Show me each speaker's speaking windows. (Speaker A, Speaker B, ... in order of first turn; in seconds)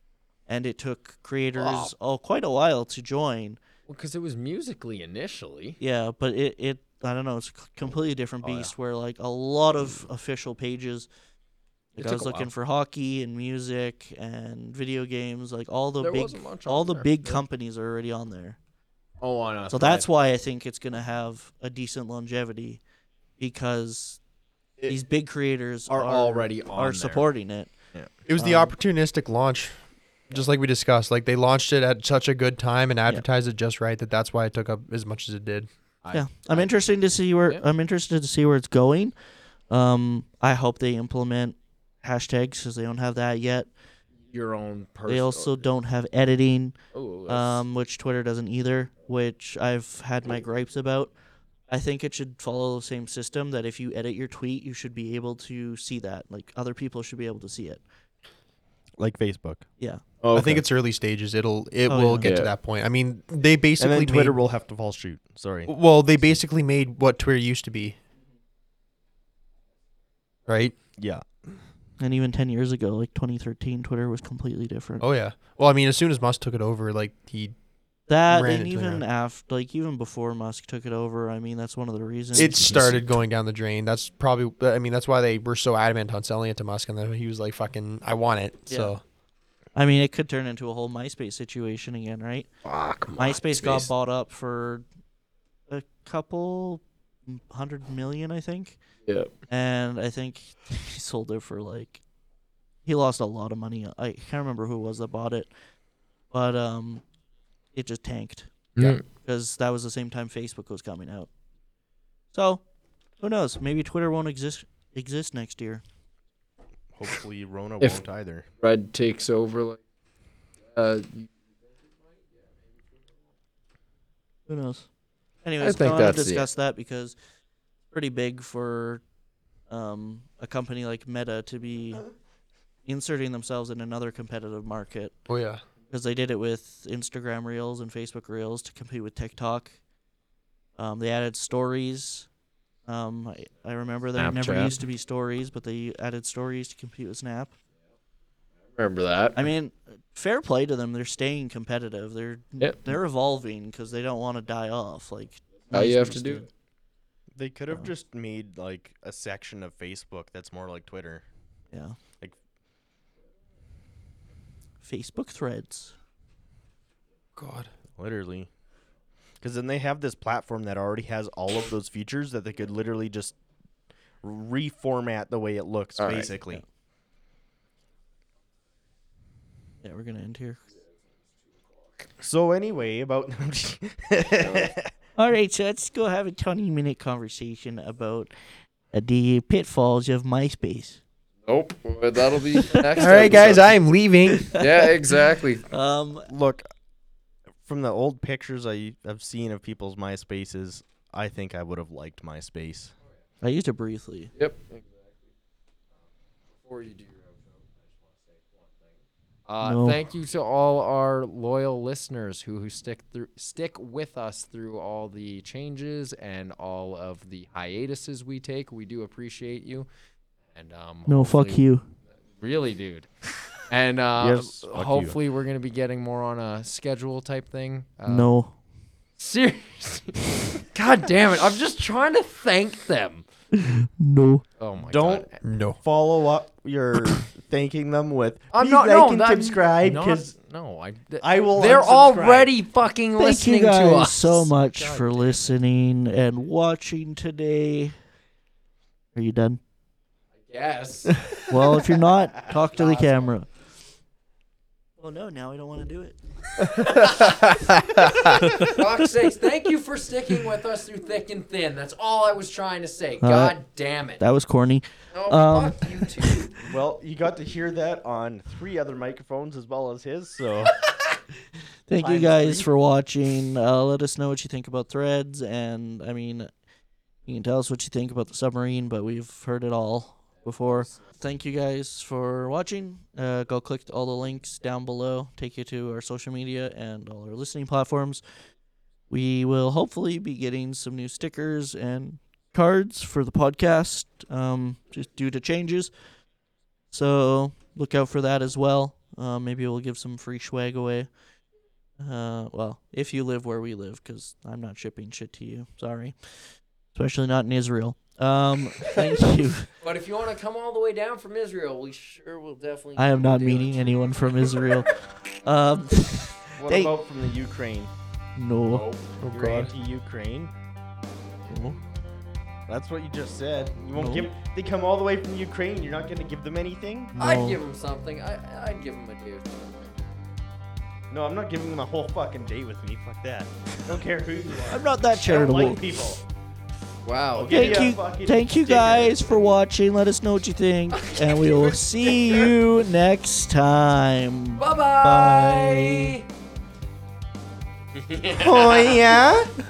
Speaker A: 0.5-3.6, 5.8-11.1, 11.9-18.6, 19.7-22.8, 23.4-24.2, 24.9-27.7, 28.4-28.7, 36.1-39.1, 39.7-43.7, 45.1-46.8, 47.3-51.1, 51.7-57.8, 61.9-62.3, 72.0-75.0, 78.1-82.6, 88.7-88.9, 89.7-92.5, 93.2-94.8, 95.7-98.8, 99.5-102.0, 102.8-105.5, 106.3-107.0, 107.7-111.3, 112.3-112.6, 113.2-115.8, 124.5-124.9, 125.4-127.2, 127.9-129.0, 129.7-132.0, 132.8-135.1, 135.9-139.8, 140.8-142.3, 142.9-147.5, 149.3-156.5, 161.7-162.0, 164.8-165.9, 179.8-180.6, 185.2-188.3, 188.9-191.0, 192.6-192.9, 194.3-195.1, 195.7-196.3, 203.4-204.3, 209.6-210.0, 221.1-221.9, 228.1-228.5, 233.5-234.4, 243.2-247.9, 249.1-249.6, 251.5-253.5, 255.0-256.2, 263.2-263.6, 264.2-266.5, 271.9-276.5, 277.3-288.2, 289.1-295.9, 296.9-301.1, 302.0-306.1, 306.9-309.7, 312.9-316.9, 318.4-318.8, 321.5-321.8, 323.9-324.3, 327.1-327.6, 334.7-335.8, 337.5-346.2
Speaker B: 1.6-1.9, 3.9-5.8, 8.4-8.7, 12.0-12.5, 16.0-17.4, 19.2-20.1, 25.9-27.2, 36.0-36.7, 44.3-45.7, 46.9-47.6, 60.2-60.6, 62.2-62.5, 82.4-83.0, 92.6-93.9, 108.8-109.0, 118.6-119.8, 120.7-121.3, 122.0-122.6, 125.6-126.5, 144.2-144.7, 148.8-149.4, 155.7-156.4, 176.0-176.3, 184.4-184.7, 191.4-193.7, 194.5-195.6, 204.4-205.0, 206.6-219.9, 220.5-221.6, 222.4-228.3, 229.2-233.2, 234.6-235.4, 238.5-245.5, 250.5-251.4, 252.4-253.3, 256.8-257.5, 258.4-264.2, 265.1-266.6, 280.7-281.0, 309.8-314.5, 318.7-319.1, 327.2-329.9, 337.0-337.9, 341.0-342.5, 344.6-346.2, 347.9-349.1
Speaker C: 28.2-29.8, 30.3-35.7, 60.3-64.4, 65.7-68.0, 70.5-70.7, 75.0-77.5, 78.3-79.0, 82.3-89.0, 135.3-135.6, 167.4-167.7, 192.9-194.5, 235.4-235.8, 256.7-258.6, 319.2-319.7
Speaker D: 59.0-59.7, 63.8-65.7, 71.0-71.2, 116.9-118.5, 157.3-161.2, 167.9-168.5, 169.4-173.3, 174.2-176.6, 182.2-184.9, 196.3-196.6, 197.6-202.9, 224.2-225.2, 234.9-235.3, 235.8-240.3, 241.2-242.5, 266.7-270.9, 272.0-272.7, 316.6-317.9, 319.3-320.5, 322.7-327.1, 331.1-336.2, 337.4-339.2, 348.3-349.5